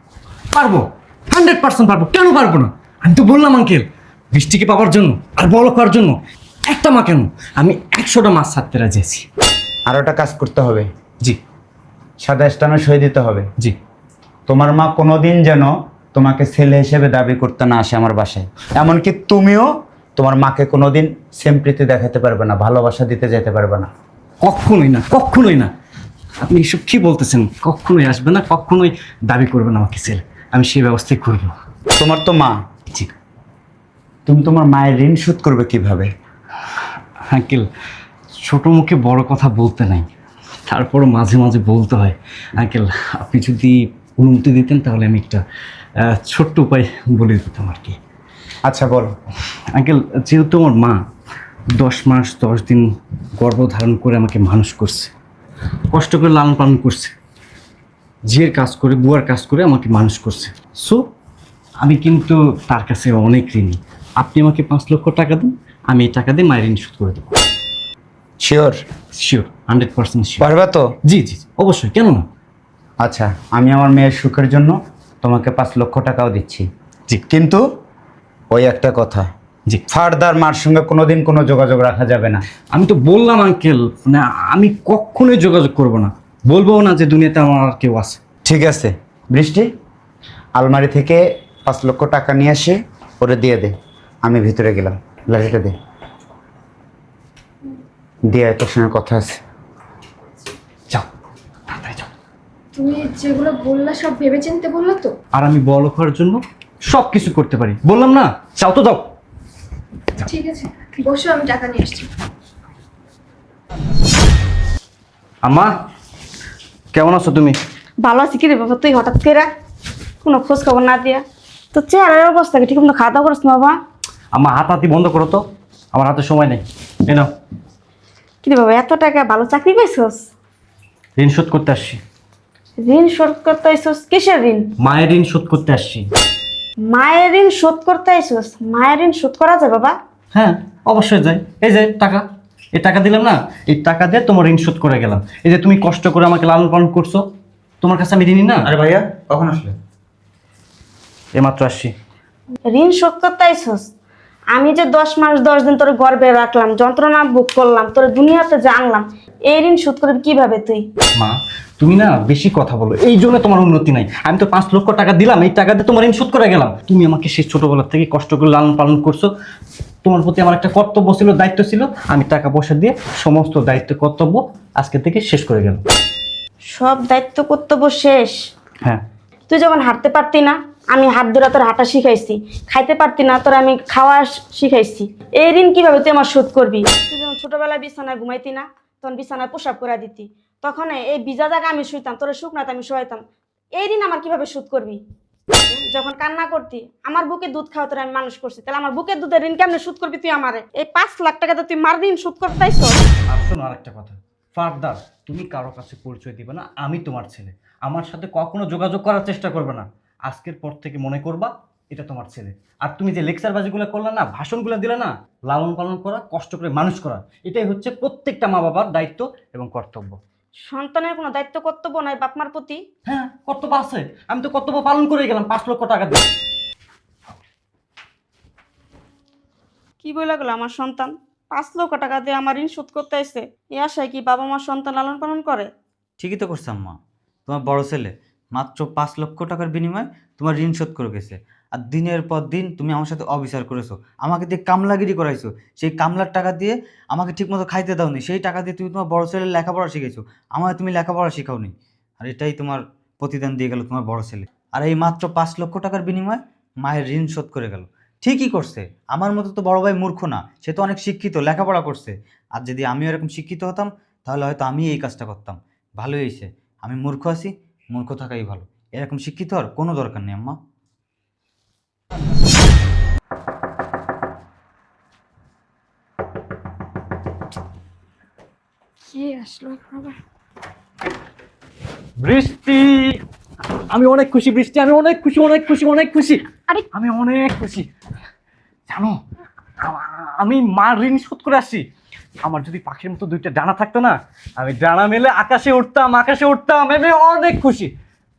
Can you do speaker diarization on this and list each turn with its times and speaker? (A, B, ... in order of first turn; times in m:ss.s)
0:00.5-0:09.3 A
0:09.9-0:10.9 B
0:12.2-0:13.5 B
0:14.5-0:23.9 B
0:24.4-0:25.7 A
0:26.4-0:31.6 A
0:32.0-0:32.6 B
0:34.3-0:36.1 B
0:37.3-0:37.7 A
0:38.4-0:40.1 A
0:40.7-0:45.4 A
0:46.0-0:48.0 A
0:48.6-0:49.1 B
0:49.7-0:51.0 A
0:51.8-0:55.1 A
0:55.9-0:57.2 A
0:58.3-1:01.1 A
1:01.8-1:07.4 A
1:08.4-1:08.8 B
1:09.2-1:10.5 A
1:10.4-1:10.9 B
1:11.0-1:12.3 A
1:13.0-1:16.7 B
1:17.3-1:17.6 B
1:18.5-1:19.3 B
1:19.9-1:22.4 B
1:22.7-1:28.2 A
1:28.4-1:29.7 B
1:30.6-1:35.8 B
1:38.3-1:39.4 B
1:41.7-1:42.1 A
1:42.8-1:45.1 C
1:45.3-1:49.1 A
1:50.3-1:52.1 C
1:55.4-1:55.8 A
1:56.9-1:57.6 A
1:58.0-1:59.5 D
2:00.2-2:03.8 D
2:04.3-2:07.3 A
2:08.4-2:10.3 D
2:11.2-2:12.0 A
2:12.8-2:14.7 D
2:14.8-2:16.1 A
2:16.9-2:20.0 D
2:20.3-2:27.3 A
2:27.8-2:28.7 A
2:28.6-2:29.8 E
2:31.4-2:31.9 A
2:32.7-2:33.9 D
2:34.5-2:40.9 D
2:41.2-2:49.3 A
2:50.0-2:55.8 A
2:56.7-2:58.5 D
2:59.5-3:13.2 D
3:13.8-3:15.0 D
3:15.7-3:23.0 D
3:23.3-3:40.2 A
3:40.7-3:42.8 D
3:43.1-3:46.3 A
3:50.0-3:55.7 D
3:56.2-4:30.6 E
4:39.1-4:40.2 C
4:42.2-4:43.2 A
4:43.8-4:47.9 A
4:48.9-4:49.2 A
4:49.8-4:51.9 A
4:52.4-4:57.9 A